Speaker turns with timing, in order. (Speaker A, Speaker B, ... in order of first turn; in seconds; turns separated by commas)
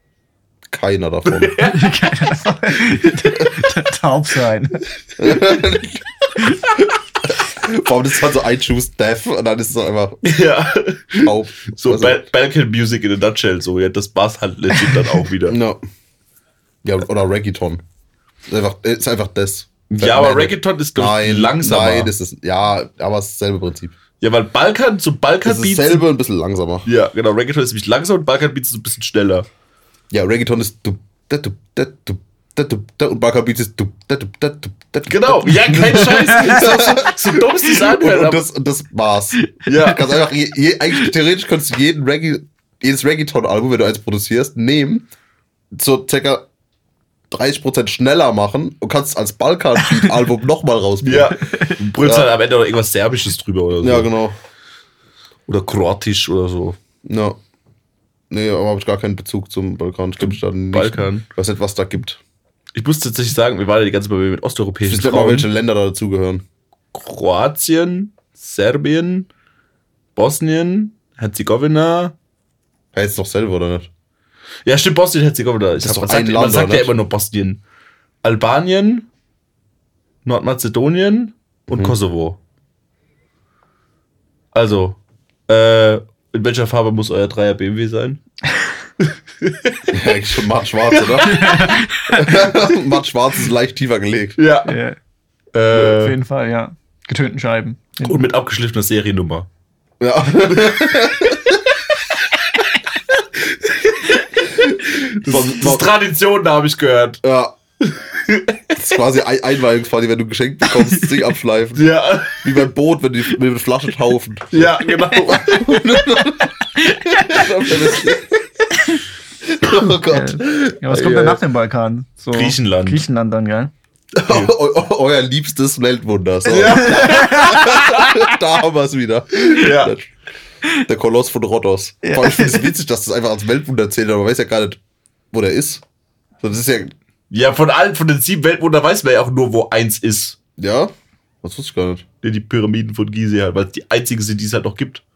Speaker A: 0.7-1.6, Speaker B: 1.3-2.0, Speaker C: 1.6-4.8, Speaker A: 5.2-6.5, Speaker A: 7.2-10.4, Speaker B: 10.2-15.6, Speaker A: 11.2-12.2, Speaker A: 15.5-15.8, Speaker A: 16.8-17.8, Speaker A: 18.5-23.9, Speaker B: 19.9-22.1, Speaker B: 24.2-26.0, Speaker A: 25.4-26.9, Speaker B: 26.9-29.5, Speaker A: 30.1-45.1, Speaker B: 35.1-38.4, Speaker B: 39.7-40.0, Speaker A: 45.7-46.5, Speaker A: 47.3-51.4, Speaker B: 51.0-54.1, Speaker C: 51.4-51.8, Speaker A: 52.0-52.3, Speaker A: 53.8-54.4, Speaker B: 55.5-56.8, Speaker A: 57.0-57.4, Speaker A: 58.3-62.2, Speaker B: 60.2-61.3, Speaker B: 62.8-65.5, Speaker A: 64.8-66.4, Speaker B: 66.9-69.3, Speaker B: 70.2-72.2, Speaker A: 72.9-73.9, Speaker B: 74.7-77.6, Speaker A: 75.8-77.0, Speaker B: 78.2-79.1, Speaker B: 80.2-82.4, Speaker A: 81.7-82.0, Speaker B: 84.5-88.2, Speaker B: 89.0-90.1, Speaker A: 89.9-94.4, Speaker B: 90.9-91.8, Speaker C: 91.2-92.5, Speaker B: 94.4-94.8, Speaker C: 94.7-95.0, Speaker B: 95.5-96.2, Speaker C: 95.7-98.2, Speaker B: 98.0-99.5, Speaker A: 100.0-101.6, Speaker B: 103.2-107.2, Speaker A: 104.6-105.9, Speaker A: 107.2-107.5, Speaker B: 107.8-108.8, Speaker A: 108.8-118.4, Speaker B: 111.8-112.6, Speaker B: 114.5-116.3, Speaker C: 116.8-117.4, Speaker A: 119.5-121.4, Speaker C: 120.1-123.7, Speaker B: 122.3-123.0, Speaker A: 124.2-130.1, Speaker B: 124.3-124.5, Speaker B: 126.5-128.2, Speaker C: 126.7-128.2, Speaker B: 129.5-129.9, Speaker A: 130.8-134.8, Speaker C: 132.0-132.7, Speaker A: 135.3-135.8, Speaker A: 136.4-136.9, Speaker B: 137.3-140.4, Speaker A: 140.6-140.9, Speaker A: 141.4-142.0, Speaker B: 142.2-145.0